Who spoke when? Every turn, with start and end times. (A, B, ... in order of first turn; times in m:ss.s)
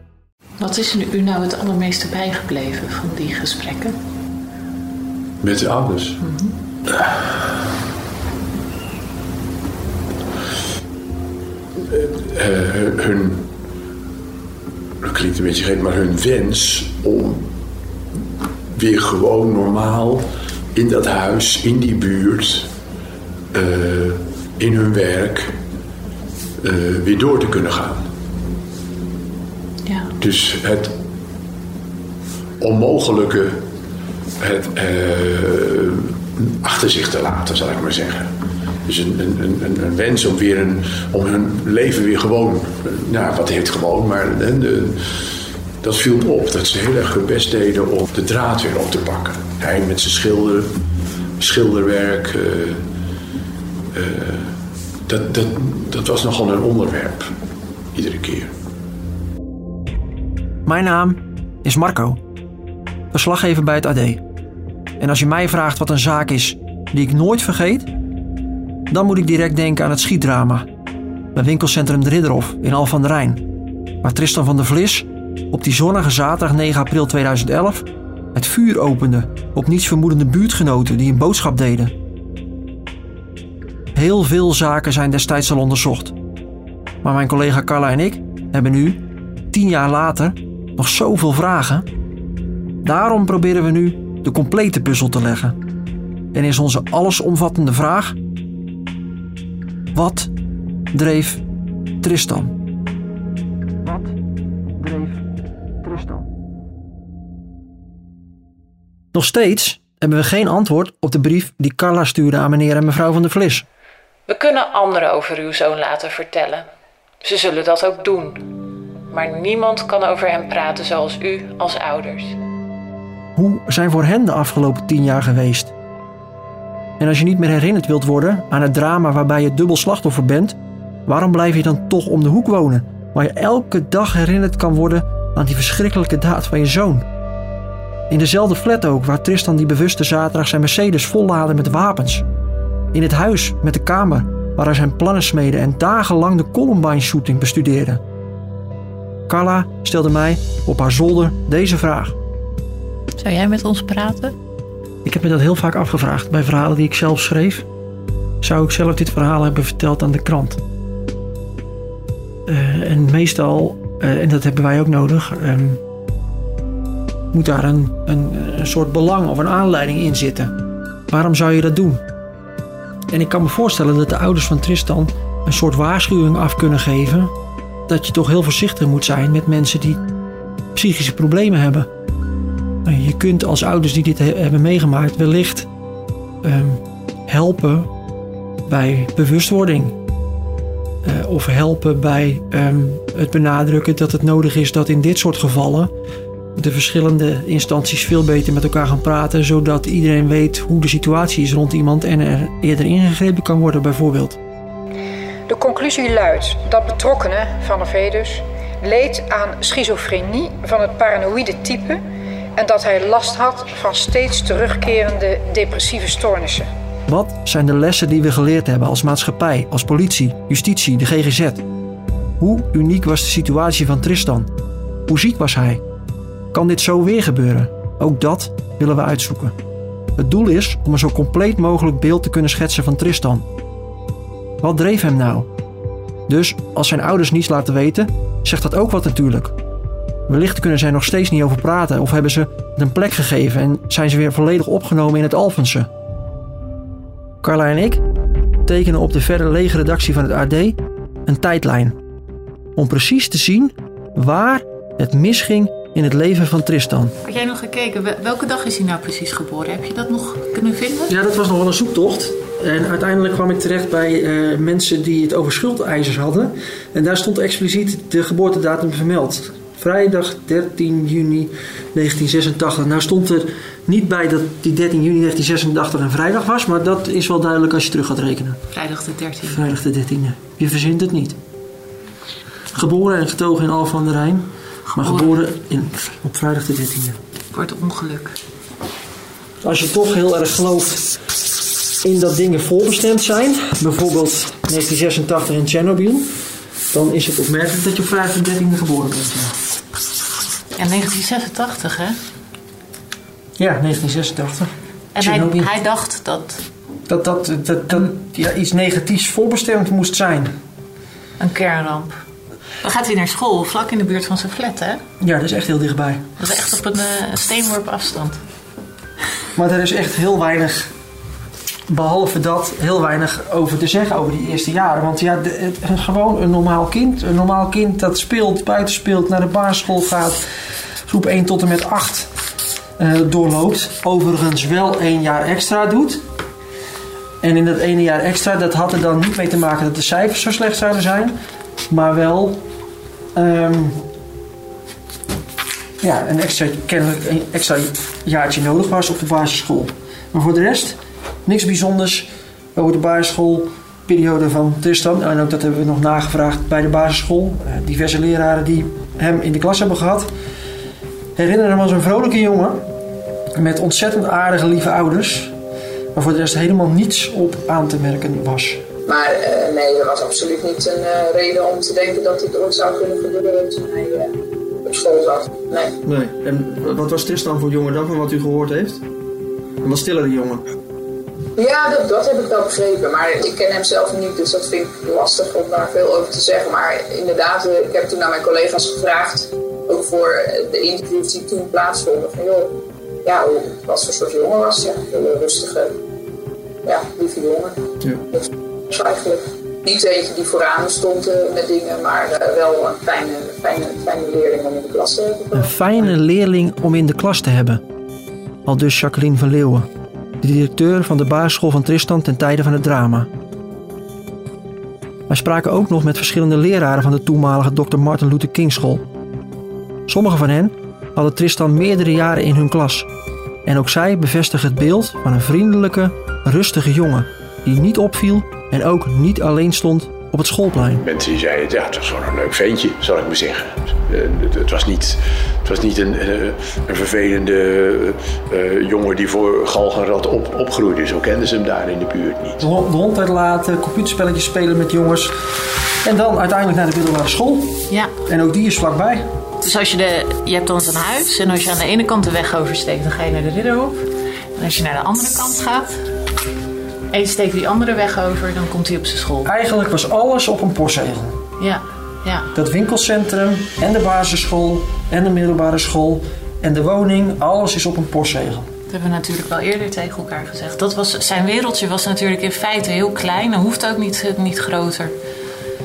0:00.6-0:04.0 A
0:05.4-0:06.2 B
0:06.2-0:06.5 A
0:11.9-0:13.5 B
0:15.0-0:17.5 B
0:18.7-0:22.7 B
0:23.5-0:25.6 B
0:26.6-0:28.1 B
0:29.8-0:30.1 A
0:30.2-0:30.9 B
0:32.6-0:33.6 B
0:34.4-0:38.3 B
0:38.8-0:50.7 B
0:51.4-0:52.8 B
0:53.9-0:57.3 B
0:57.9-0:58.5 B
1:00.6-1:02.2 C
1:03.1-1:04.2 C
1:05.0-1:07.9 C
1:08.9-1:10.7 C
1:11.3-1:13.4 C
1:14.0-1:21.9 C
1:23.9-1:26.1 C
1:27.0-1:31.9 C
1:32.8-1:35.6 C
1:36.3-1:38.2 C
1:39.9-1:40.3 C
1:40.9-1:41.4 C
1:42.0-1:42.5 C
1:43.8-1:44.2 C
1:44.8-1:45.2 C
1:45.8-1:46.3 C
1:49.1-1:53.6 C
1:54.3-1:56.7 A
1:57.2-1:58.4 A
1:59.1-2:02.4 A
2:03.4-2:05.7 C
2:07.0-2:17.1 C
2:18.1-2:22.2 C
2:22.9-2:28.0 C
2:29.3-2:32.2 C
2:33.2-2:34.4 A
2:35.0-2:37.6 C
2:38.4-2:40.6 C
2:42.4-2:45.8 C
2:47.3-2:50.6 C
2:51.1-2:52.0 C
2:53.1-2:57.3 C
2:57.9-3:00.0 C
3:00.7-3:01.9 C
3:02.8-3:05.7 C
3:06.4-3:07.9 C
3:08.6-3:10.0 C
3:11.0-3:15.9 C
3:16.5-3:24.4 C
3:25.5-3:32.0 D
3:32.6-3:36.7 D
3:37.1-3:41.6 C
3:42.4-3:44.5 C
3:45.0-3:45.8 C
3:46.5-3:49.6 C
3:50.2-3:53.5 C
3:54.6-3:55.5 C
3:56.3-3:59.6 C
4:00.3-4:05.9 C
4:07.4-4:08.0 C
4:08.6-4:12.0 C
4:12.8-4:17.1 C
4:17.2-4:21.1 A
4:21.1-4:38.6 C
4:38.7-4:39.6 A
4:39.4-4:41.4 C
4:42.7-4:47.2 C
4:44.9-4:45.4 A
4:47.5-4:48.4 A
4:49.6-4:51.2 C
4:52.0-4:56.3 C
4:56.9-4:59.6 C
5:00.8-5:02.2 A
5:03.6-5:05.7 C
5:05.1-5:06.6 A
5:07.1-5:10.6 C
5:11.4-5:12.2 A
5:12.8-5:15.0 A
5:15.2-5:16.2 C
5:16.4-5:18.4 A
5:19.5-5:20.9 C
5:21.9-5:30.4 C
5:31.0-5:32.3 C
5:33.0-5:36.2 C
5:37.4-5:41.4 C
5:41.9-5:42.6 C
5:43.3-5:44.0 C
5:46.0-6:00.3 C
6:01.4-6:02.8 C
6:03.5-6:05.5 C
6:06.1-6:08.8 C
6:09.0-6:16.0 E
6:16.0-6:19.0 C
6:19.8-6:20.7 C
6:21.6-6:36.0 E
6:36.8-6:37.8 E
6:38.9-6:45.7 E
6:45.5-6:47.8 C
6:48.6-6:49.9 C
6:50.4-6:53.3 C
6:55.3-6:59.0 C
7:00.1-7:03.1 C
7:03.6-7:11.0 C
7:11.0-7:22.6 B
7:22.6-7:25.4 C
7:26.0-7:29.3 C
7:29.6-7:36.0 A
7:37.1-7:39.5 A
7:39.4-7:41.4 C
7:41.6-7:42.5 A
7:42.5-7:48.7 C
7:48.9-7:55.1 A